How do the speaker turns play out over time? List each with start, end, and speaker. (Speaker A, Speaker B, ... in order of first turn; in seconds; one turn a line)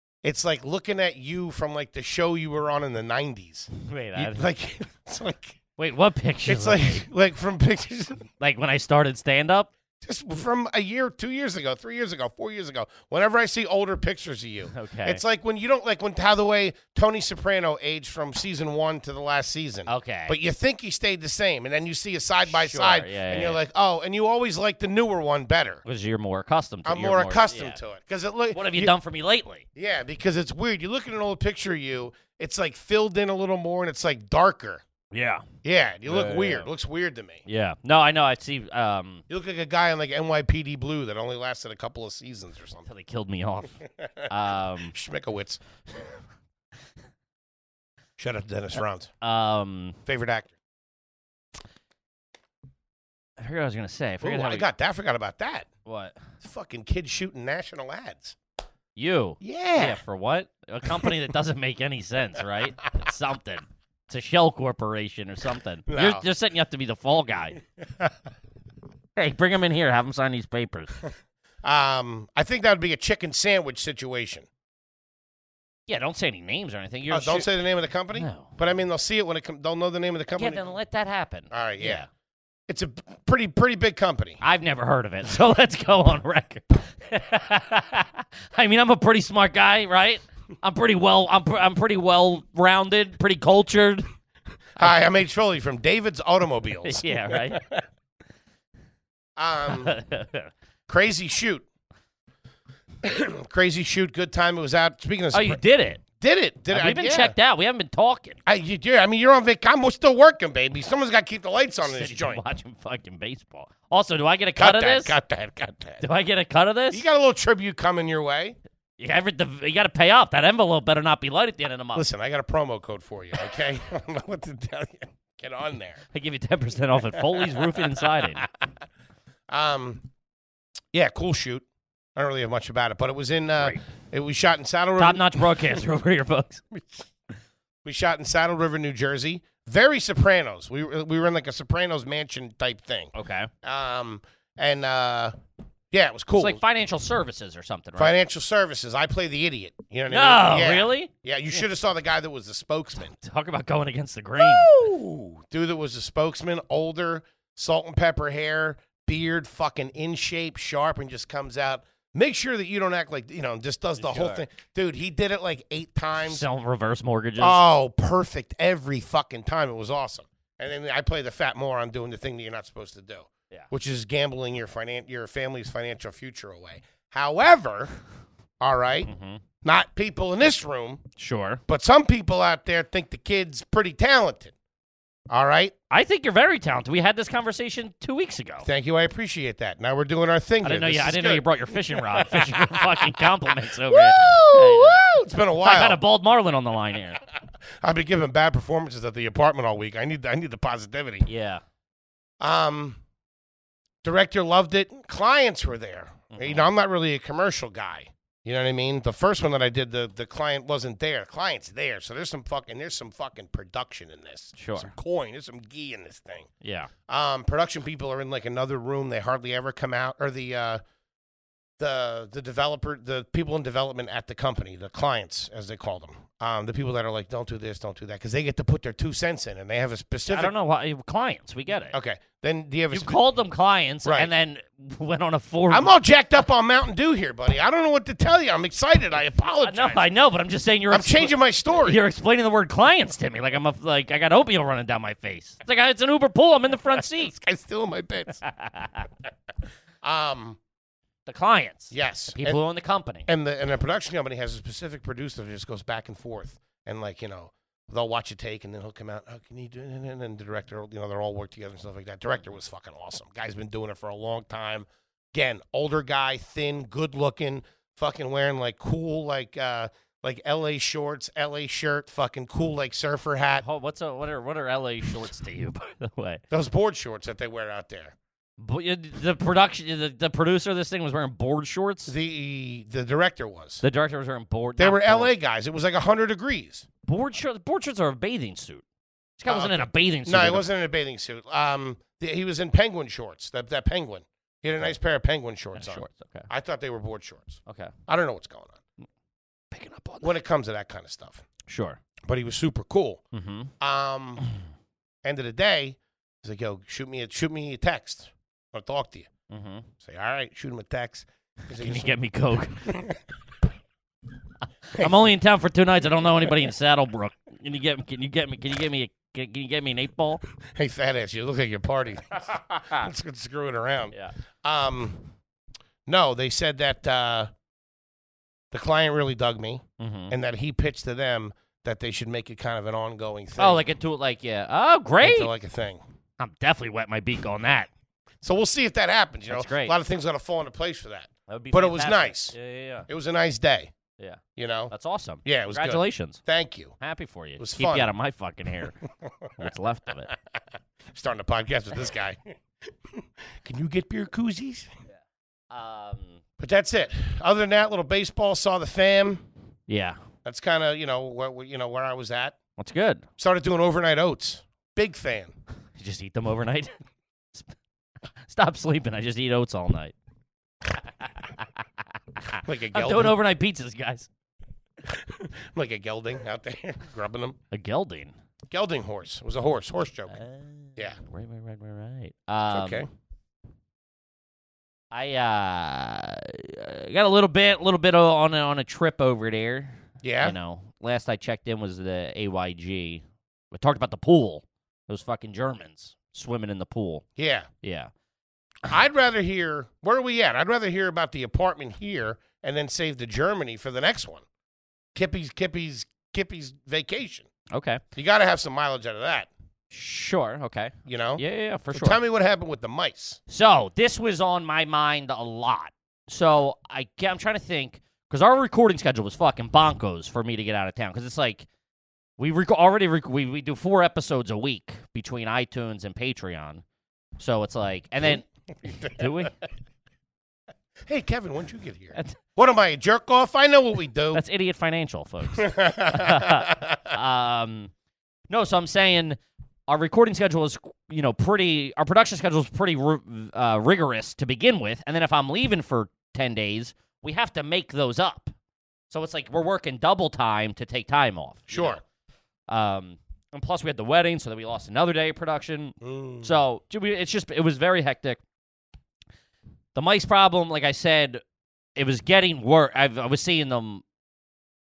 Speaker A: 0.2-5.6
Speaker B: 3.8-4.5
Speaker B: 5.8-7.1
Speaker A: 6.5-8.3
Speaker B: 8.4-9.7
Speaker A: 10.0-25.8
Speaker B: 14.7-15.2
Speaker B: 19.9-20.4
Speaker B: 22.4-23.6
Speaker B: 25.9-27.8
Speaker A: 26.9-28.9
Speaker B: 28.5-29.6
Speaker A: 29.8-34.8
Speaker B: 35.1-35.5
Speaker A: 35.6-37.4
Speaker B: 36.1-36.7
Speaker B: 37.5-39.2
Speaker A: 39.3-42.9
Speaker B: 42.9-44.9
Speaker A: 44.0-45.6
Speaker A: 48.2-49.1
Speaker B: 49.2-50.0
Speaker A: 50.0-50.5
Speaker B: 53.4-54.7
Speaker A: 54.2-55.7
Speaker B: 55.9-56.2
Speaker A: 56.4-58.4
Speaker B: 59.0-67.6
Speaker A: 59.4-60.0
Speaker A: 65.9-66.2
Speaker B: 69.2-70.9
Speaker A: 71.6-74.5
Speaker B: 75.9-77.5
Speaker A: 77.1-80.7
Speaker B: 78.1-78.5
Speaker B: 80.4-82.1
Speaker A: 81.5-82.1
Speaker A: 82.7-84.4
Speaker B: 84.4-94.1
Speaker A: 94.8-97.8
Speaker B: 96.8-97.6
Speaker A: 99.4-100.0
Speaker B: 99.7-100.5
Speaker A: 100.9-101.7
Speaker A: 103.0-105.6
Speaker B: 105.3-106.0
Speaker A: 106.2-107.3
Speaker B: 106.7-108.4
Speaker A: 108.5-112.4
Speaker B: 111.8-115.2
Speaker A: 114.6-116.0
Speaker B: 116.0-117.0
Speaker A: 116.9-118.6
Speaker B: 119.0-122.0
Speaker A: 122.0-126.0
Speaker B: 126.1-128.5
Speaker A: 127.3-127.6
Speaker A: 129.5-130.0
Speaker A: 130.9-131.7
Speaker A: 132.2-135.7
Speaker B: 135.0-136.6
Speaker A: 137.8-145.3
Speaker B: 143.1-143.5
Speaker A: 145.9-146.6
Speaker B: 146.4-148.1
Speaker A: 148.0-153.2
Speaker B: 150.1-151.6
Speaker B: 153.1-154.7
Speaker A: 154.4-166.4
Speaker B: 164.0-164.4
Speaker B: 166.2-167.6
Speaker A: 167.4-178.0
Speaker A: 178.6-179.1
Speaker B: 179.1-179.4
Speaker A: 179.6-181.1
Speaker B: 181.2-181.6
Speaker A: 181.7-184.5
Speaker A: 185.3-185.7
Speaker B: 185.9-188.7
Speaker A: 188.6-196.0
Speaker B: 190.6-195.0
Speaker B: 195.6-197.2
Speaker A: 197.8-201.3
Speaker B: 201.3-201.6
Speaker A: 202.4-203.0
Speaker A: 204.0-216.5
Speaker B: 206.3-206.7
Speaker B: 214.6-214.9
Speaker B: 216.6-216.9
Speaker A: 217.1-220.8
Speaker A: 221.8-230.5
Speaker B: 230.3-231.9
Speaker A: 231.9-233.2
Speaker B: 232.9-235.9
Speaker A: 234.1-234.3
Speaker A: 235.7-240.0
Speaker B: 239.6-247.3
Speaker A: 240.9-242.0
Speaker A: 247.0-248.4
Speaker B: 248.4-249.1
Speaker A: 250.0-250.6
Speaker B: 251.3-253.3
Speaker A: 251.9-252.6
Speaker A: 253.3-273.6
Speaker B: 273.6-276.4
Speaker A: 276.5-278.2
Speaker B: 278.6-282.1
Speaker A: 282.1-283.8
Speaker B: 283.8-285.3
Speaker A: 284.8-286.9
Speaker B: 287.1-288.8
Speaker B: 289.4-290.7
Speaker A: 289.5-298.8
Speaker B: 295.8-296.5
Speaker B: 297.7-297.9
Speaker B: 299.7-300.3
Speaker A: 300.2-301.5
Speaker B: 301.7-302.0
Speaker A: 302.3-303.2
Speaker B: 303.3-303.7
Speaker A: 303.8-304.4
Speaker A: 305.2-309.3
Speaker B: 309.5-309.9
Speaker A: 310.0-312.2
Speaker B: 311.7-312.9
Speaker A: 312.8-313.2
Speaker B: 314.9-320.4
Speaker A: 320.7-325.3
Speaker B: 322.5-323.1
Speaker A: 326.1-327.5
Speaker A: 328.7-333.9
Speaker B: 330.0-330.3
Speaker B: 333.6-335.5
Speaker A: 335.2-336.0
Speaker B: 336.4-337.9
Speaker A: 338.4-342.6
Speaker B: 339.5-339.9
Speaker B: 341.5-343.1
Speaker A: 343.1-343.9
Speaker B: 344.2-346.4
Speaker A: 344.6-344.9
Speaker A: 345.4-346.9
Speaker B: 347.0-349.0
Speaker A: 347.6-348.1
Speaker B: 349.6-350.3
Speaker A: 351.1-352.5
Speaker A: 353.1-354.9
Speaker B: 355.7-356.4
Speaker A: 356.6-359.4
Speaker B: 359.9-360.2
Speaker A: 360.4-362.6
Speaker B: 362.8-363.2
Speaker A: 363.4-365.5
Speaker B: 366.0-366.9
Speaker B: 368.4-370.1
Speaker B: 371.0-374.3
Speaker A: 372.6-373.4
Speaker A: 375.1-377.6
Speaker B: 377.7-378.3
Speaker A: 378.7-380.4
Speaker B: 380.3-383.0
Speaker A: 382.7-383.1
Speaker B: 385.1-397.2
Speaker A: 390.2-390.6
Speaker A: 397.4-397.7
Speaker B: 397.8-398.1
Speaker A: 398.9-404.4
Speaker A: 405.1-407.5
Speaker B: 407.7-408.0
Speaker A: 408.1-409.5
Speaker B: 409.9-412.2
Speaker A: 411.1-413.4
Speaker B: 413.5-421.7
Speaker B: 422.4-426.8
Speaker B: 427.4-429.5
Speaker A: 428.9-429.2
Speaker A: 431.1-434.4
Speaker B: 434.3-437.9
Speaker A: 435.5-437.1
Speaker B: 438.5-448.5
Speaker B: 449.1-452.0
Speaker A: 451.7-452.0
Speaker B: 452.7-458.4
Speaker A: 456.0-456.6
Speaker B: 459.9-461.4
Speaker B: 462.0-464.0